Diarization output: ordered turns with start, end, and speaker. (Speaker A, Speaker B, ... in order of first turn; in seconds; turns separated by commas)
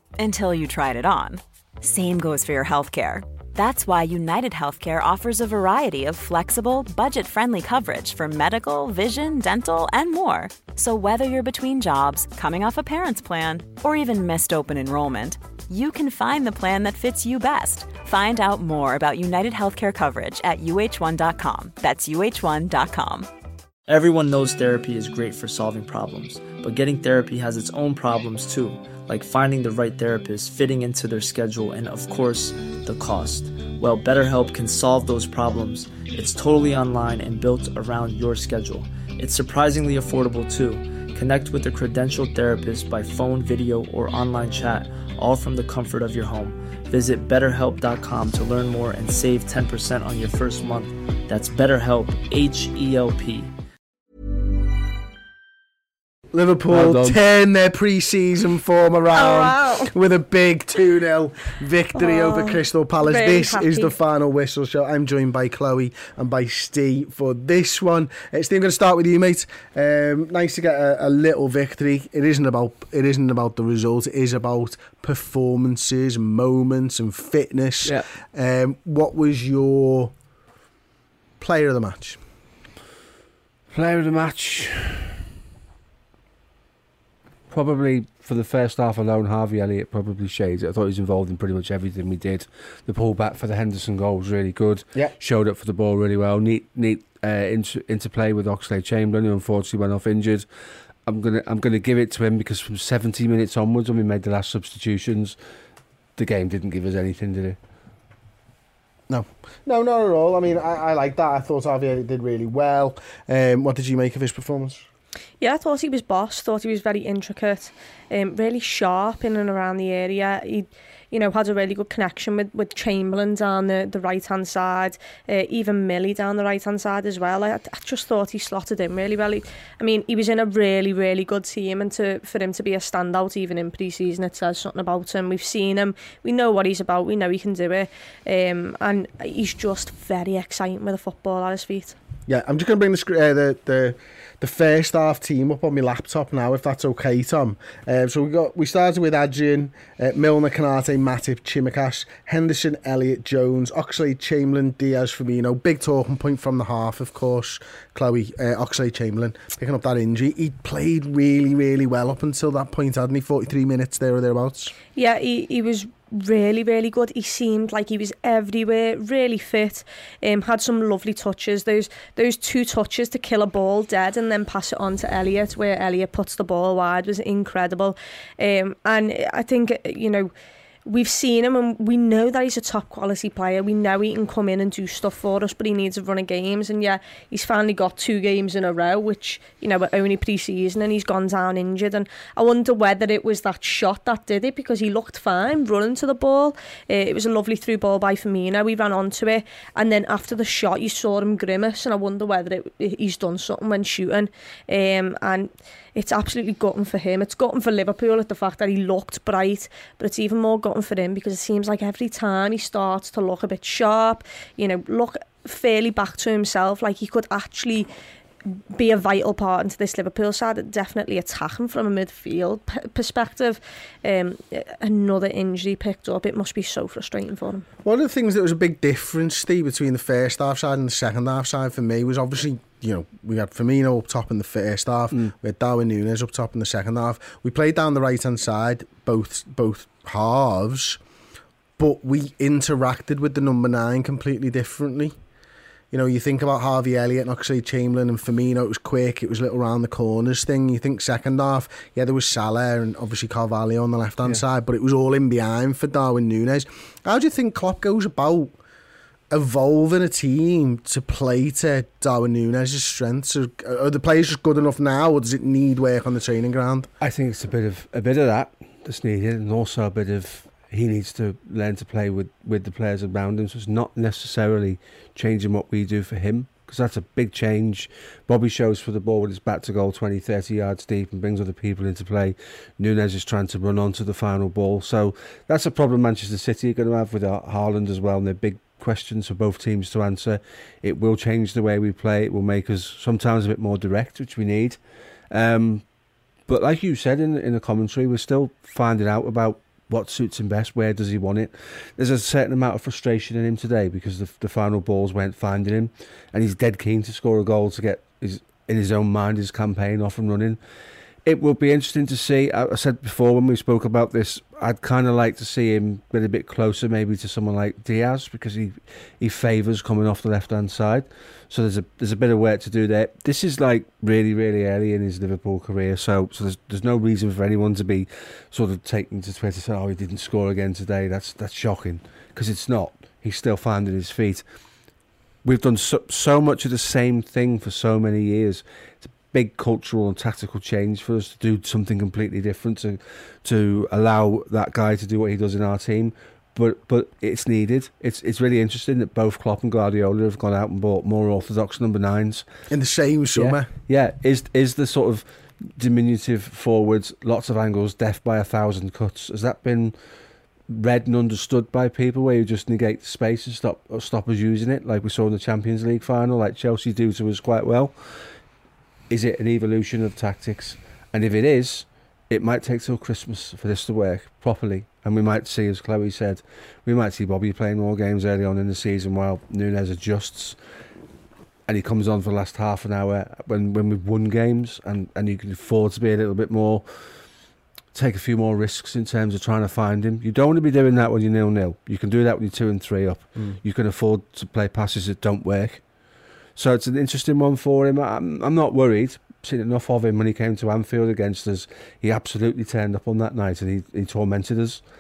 Speaker A: 0.2-23.3, Speaker B: 23.9-53.5, Speaker C: 56.3-80.1, Speaker D: 56.7-57.2, Speaker E: 59.1-59.9, Speaker E: 62.0-64.0, Speaker D: 77.8-78.1, Speaker C: 81.4-82.2, Speaker D: 83.7-85.2, Speaker D: 87.5-100.5, Speaker D: 101.1-105.4, Speaker D: 106.2-107.6, Speaker C: 109.1-114.8, Speaker E: 115.4-142.0, Speaker C: 142.3-164.7, Speaker E: 164.9-180.3, Speaker E: 180.9-217.9, Speaker E: 218.5-227.7, Speaker C: 227.8-241.0, Speaker C: 241.8-245.1, Speaker C: 245.9-258.5, Speaker C: 259.3-266.9, Speaker D: 267.0-294.8, Speaker D: 295.3-295.8, Speaker D: 296.5-310.6, Speaker D: 311.2-334.4, Speaker D: 335.4-352.4, Speaker C: 352.7-353.7, Speaker D: 353.4-359.9, Speaker D: 360.7-367.9, Speaker D: 369.1-380.6, Speaker D: 381.7-386.8, Speaker D: 387.9-395.8, Speaker D: 396.6-404.8